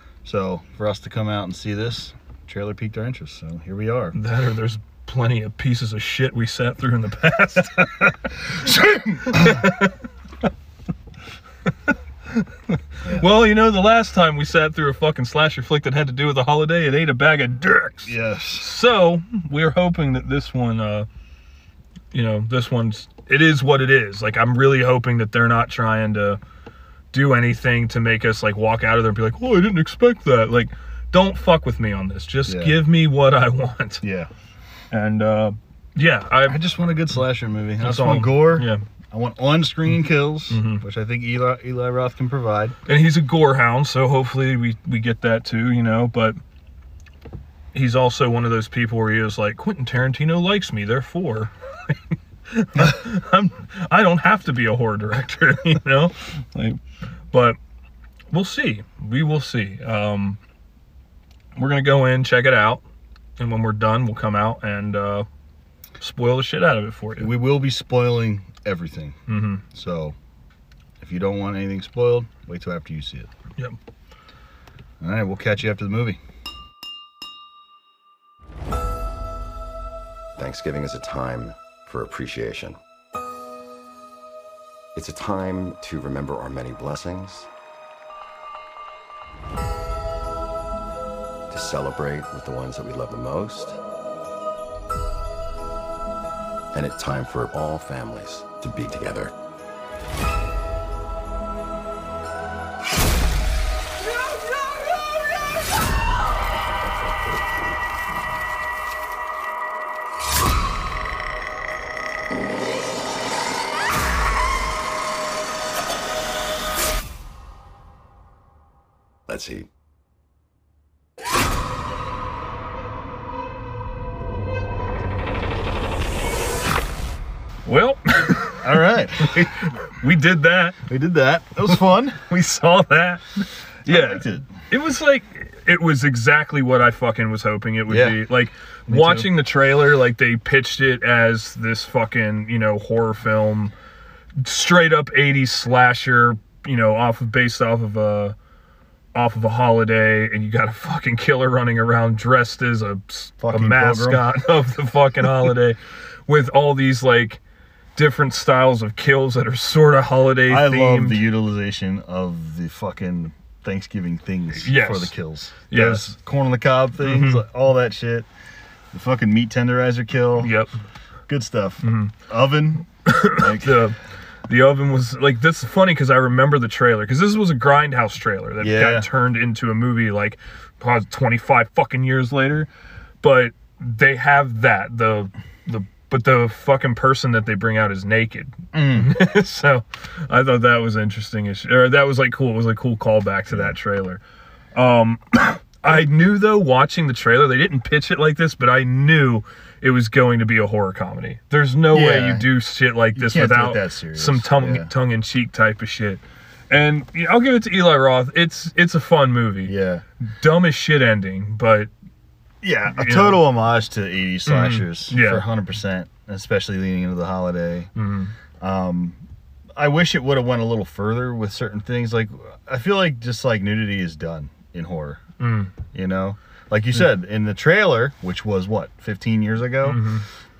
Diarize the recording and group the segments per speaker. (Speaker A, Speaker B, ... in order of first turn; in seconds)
Speaker A: 0.2-4.2, 8.9-9.6, 13.0-13.3, 18.0-18.7, 32.5-32.8, 34.0-34.3, 36.4-42.7, 67.2-70.2, 71.0-73.3, 75.0-76.2, 128.6-129.5, 130.9-132.2, 133.9-134.5, 137.9-138.2, 138.9-139.3, 153.4-154.2, 160.4-168.3, 168.9-170.5, 171.3-173.9, 178.6-179.1, 188.7-189.2, 201.9-202.5, 203.1-204.9, 209.7-210.0, 212.6-217.9, 218.6-219.2, 219.8-225.2, 225.9-230.2
Speaker B: 4.1-10.0, 11.9-21.1, 22.1-26.4, 27.1-34.0, 34.9-36.6, 37.8-38.8, 40.5-40.8, 42.9-46.4, 47.7-56.8, 57.3-57.6, 58.3-60.4, 61.5-62.8, 63.4-65.3, 66.0-67.3, 69.3-69.6, 127.6-130.8, 132.3-143.7, 144.4-148.3, 149.1-157.4, 157.9-161.2, 164.6-165.1, 165.7-166.1, 167.0-167.4, 170.4-170.7, 171.8-172.1, 173.1-173.9, 174.5-182.7, 183.2-194.2, 194.7-211.9, 212.9-213.4, 214.4-215.4, 217.9-218.3, 225.4-225.7, 229.8-230.2
Speaker C: 80.3-82.8, 84.9-87.5, 91.5-93.8, 96.7-99.3, 119.3-119.7